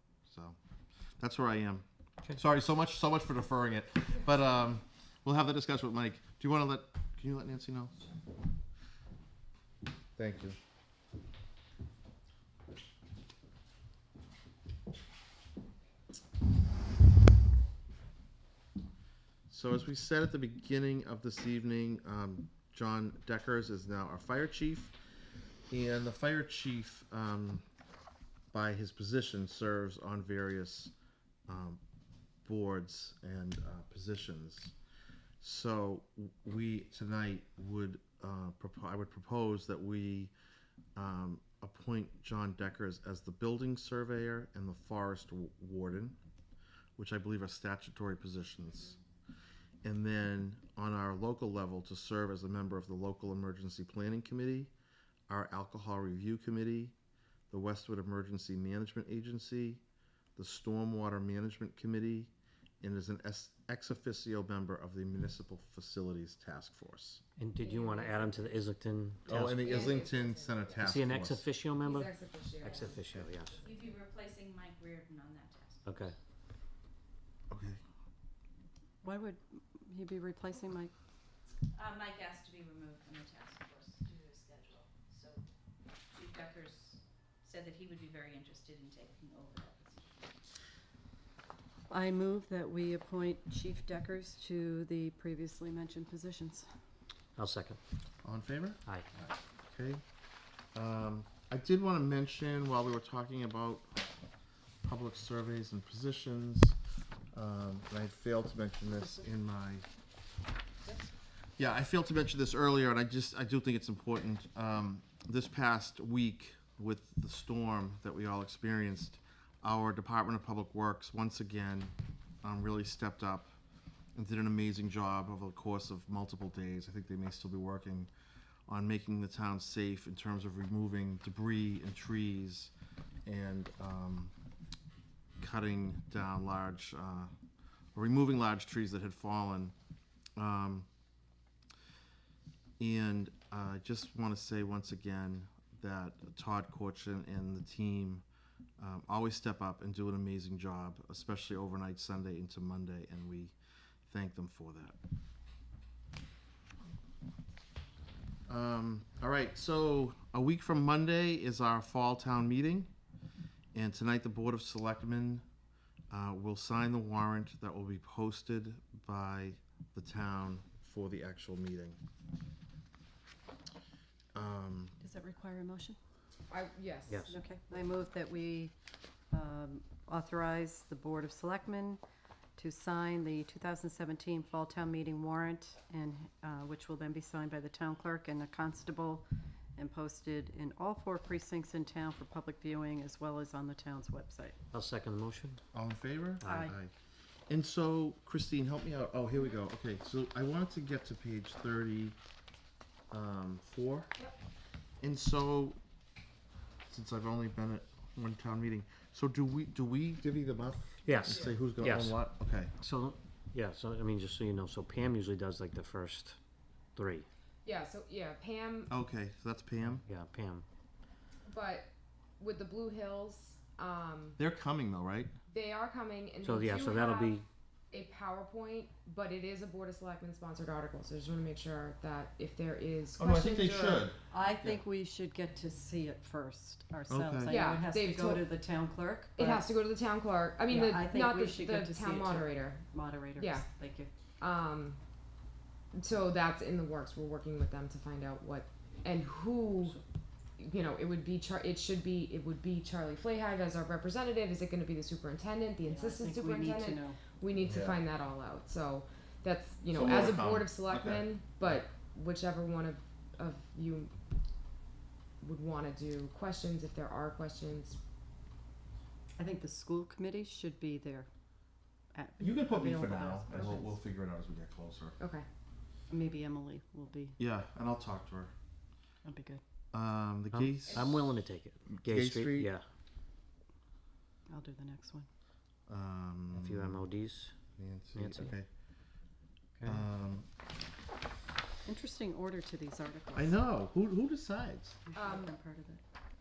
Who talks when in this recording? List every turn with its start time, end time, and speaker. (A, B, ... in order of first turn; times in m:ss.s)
0:00.3-0:00.6 A
0:01.2-0:07.9 A
0:10.2-0:10.6 A
0:19.5-0:24.9 A
0:25.7-0:27.6 A
0:28.5-0:30.9 A
0:31.5-0:31.8 A
0:32.4-0:34.7 A
0:35.4-0:40.3 A
0:41.0-0:46.2 A
0:47.0-0:49.0 A
0:49.8-0:54.7 A
0:55.3-0:57.0 A
0:57.5-0:59.8 A
1:00.4-1:07.2 A
1:07.4-1:09.9 B
1:07.6-1:08.6 C
1:09.3-1:11.4 A
1:09.6-1:10.7 C
1:10.8-1:13.6 B
1:11.8-1:13.3 C
1:13.7-1:15.9 D
1:15.8-1:16.2 B
1:17.5-1:17.8 A
1:19.0-1:20.9 E
1:21.8-1:25.4 D
1:26.1-1:30.0 D
1:31.9-1:36.7 E
1:37.4-1:37.8 B
1:38.2-1:40.0 A
1:40.8-1:44.0 A
1:44.8-1:46.8 A
1:47.3-1:49.9 A
1:48.9-1:49.2 E
1:51.6-2:03.5 A
2:04.2-2:08.1 A
2:08.7-2:12.7 A
2:13.3-2:14.3 A
2:15.4-2:17.3 A
2:18.0-2:19.8 A
2:20.4-2:20.9 A
2:22.8-2:28.2 A
2:28.8-2:33.6 A
2:34.1-2:35.0 A
2:38.5-2:42.9 A
2:43.7-2:45.4 A
2:46.1-2:52.0 A
2:54.4-2:55.0 A
2:55.0-2:56.0 E
2:56.5-2:57.3 C
2:57.3-2:58.7 E
2:59.3-3:02.0 E
3:02.6-3:14.6 E
3:14.7-3:15.6 B
3:15.7-3:16.9 A
3:16.4-3:16.7 B
3:16.4-3:16.7 E
3:17.5-3:22.2 A
3:23.1-3:24.1 A
3:25.0-3:25.8 A
3:26.9-3:32.7 A
3:31.0-3:36.4 B
3:37.0-3:37.3 B
3:37.6-3:38.9 C
3:38.9-3:40.0 A
3:40.0-3:40.7 B
3:41.5-3:41.9 C
3:42.4-3:44.4 C
3:44.4-3:45.3 A
3:45.5-3:47.4 C
3:46.4-3:47.4 B
3:47.9-3:54.1 C
3:53.2-3:54.8 A
3:54.3-3:59.7 E
3:57.1-3:57.6 A
3:57.5-3:58.4 C
3:59.4-4:02.8 C
4:00.7-4:04.1 E
4:03.4-4:03.6 C
4:04.4-4:05.0 C
4:05.9-4:10.0 C
4:10.6-4:24.2 C
4:15.8-4:17.2 E
4:17.6-4:18.0 A
4:19.9-4:21.3 A
4:25.4-4:28.0 C
4:29.4-4:31.3 E
4:32.1-4:34.0 E
4:32.4-4:35.2 A
4:35.2-4:35.4 C
4:36.1-4:37.4 E
4:37.4-4:38.5 A
4:39.2-4:39.6 E
4:39.9-4:41.1 A
4:40.5-4:42.8 B
4:42.0-4:42.7 A
4:44.5-4:45.3 E
4:45.9-4:47.1 A
4:46.5-4:47.6 B
4:47.8-4:48.7 A
4:48.2-4:48.5 B
4:49.8-4:50.5 A
4:51.9-4:53.6 E
4:53.3-4:55.0 A
4:55.1-4:56.0 E
4:55.2-4:55.5 C